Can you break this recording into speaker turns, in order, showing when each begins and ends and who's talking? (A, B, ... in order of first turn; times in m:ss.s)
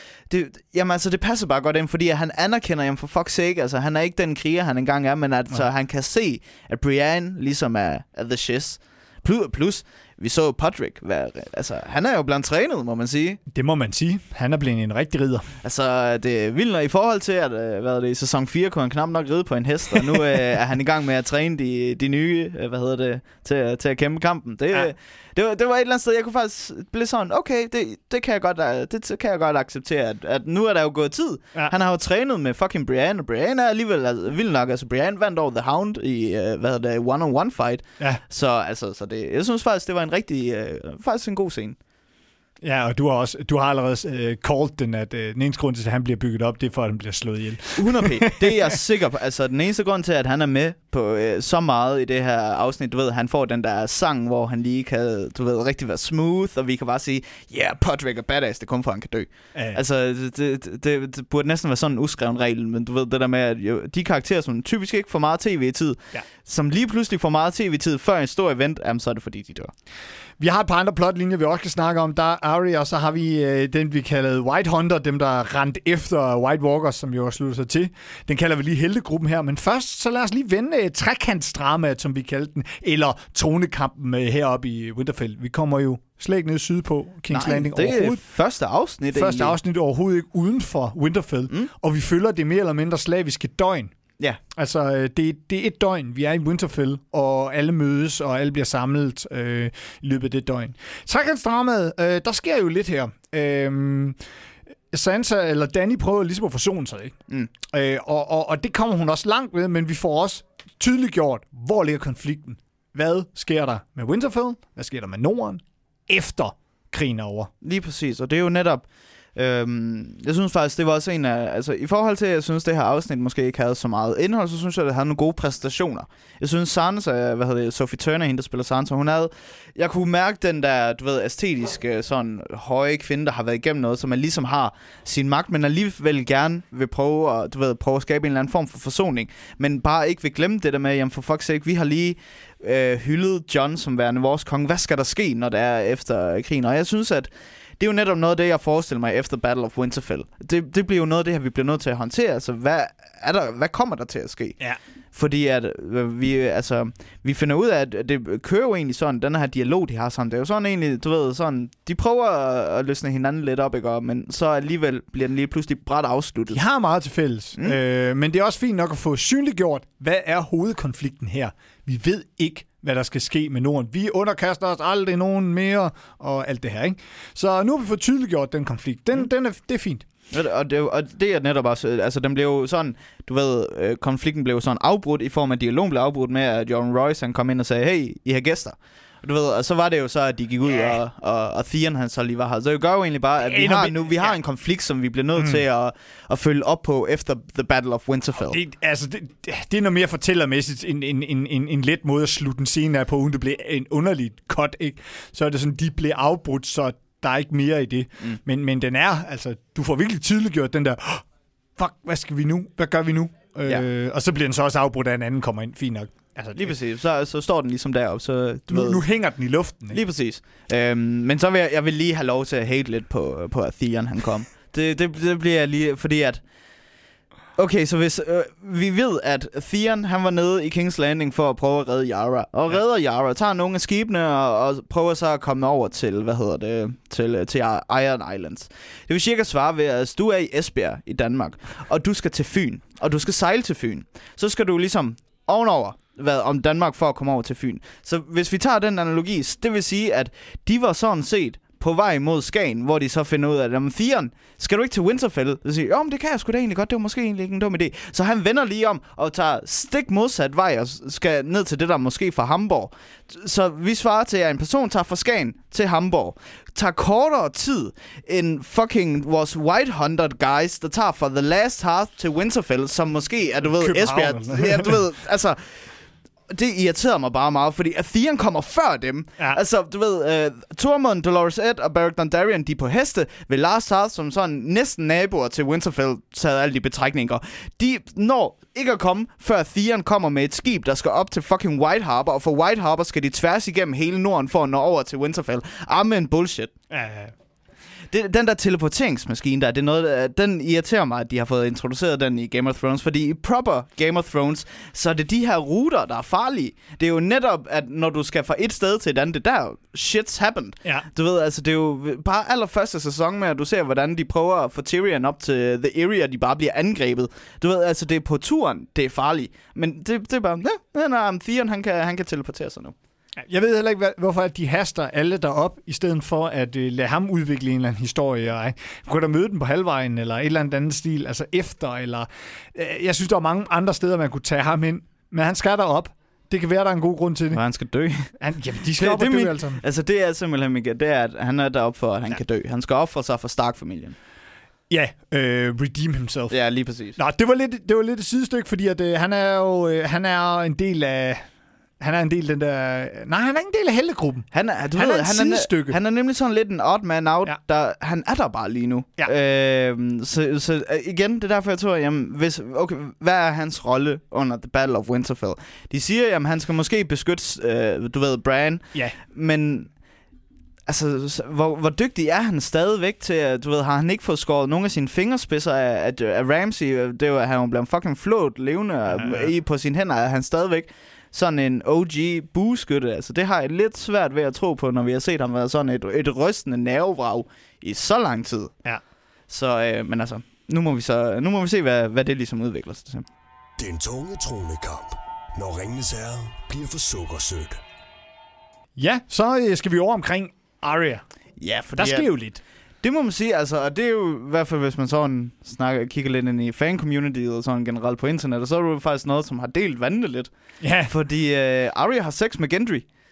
0:00.3-0:13.4 A
0:13.5-0:15.5 B
0:15.6-0:41.8 A
0:42.6-0:48.7 B
0:47.8-1:09.7 A
1:10.4-1:28.2 B
1:27.3-1:29.6 A
1:29.1-1:33.9 B
1:34.6-1:44.2 B
1:44.9-1:57.5 B
1:57.6-1:58.8 A
1:59.4-2:34.6 A
2:35.1-2:46.6 A
2:46.5-3:00.0 B
3:00.3-3:18.6 A
3:13.4-3:14.4 B
3:15.4-3:15.6 B
3:18.4-3:31.2 B
3:31.8-3:36.7 B
3:36.6-3:39.0 A
3:38.7-3:40.0 B
3:39.9-3:46.4 A
3:47.6-4:36.0 A
4:33.8-4:35.0 B
4:36.5-4:56.7 A
4:56.9-4:57.3 B
4:58.1-5:23.0 A
5:23.4-5:37.6 B
5:37.5-5:38.3 A
5:38.4-5:39.8 B
5:39.0-5:44.2 A
5:44.9-5:46.6 B
5:46.5-5:47.2 A
5:47.2-5:51.5 B
5:52.0-5:56.0 B
5:54.5-6:09.9 A
6:10.9-6:28.8 A
6:19.1-6:19.5 B
6:29.5-6:33.3 A
6:33.8-6:37.8 C
6:39.0-6:41.2 B
6:41.6-6:42.3 A
6:42.0-6:42.6 B
6:43.0-6:50.5 A
6:50.8-6:51.1 B
6:51.0-6:53.1 A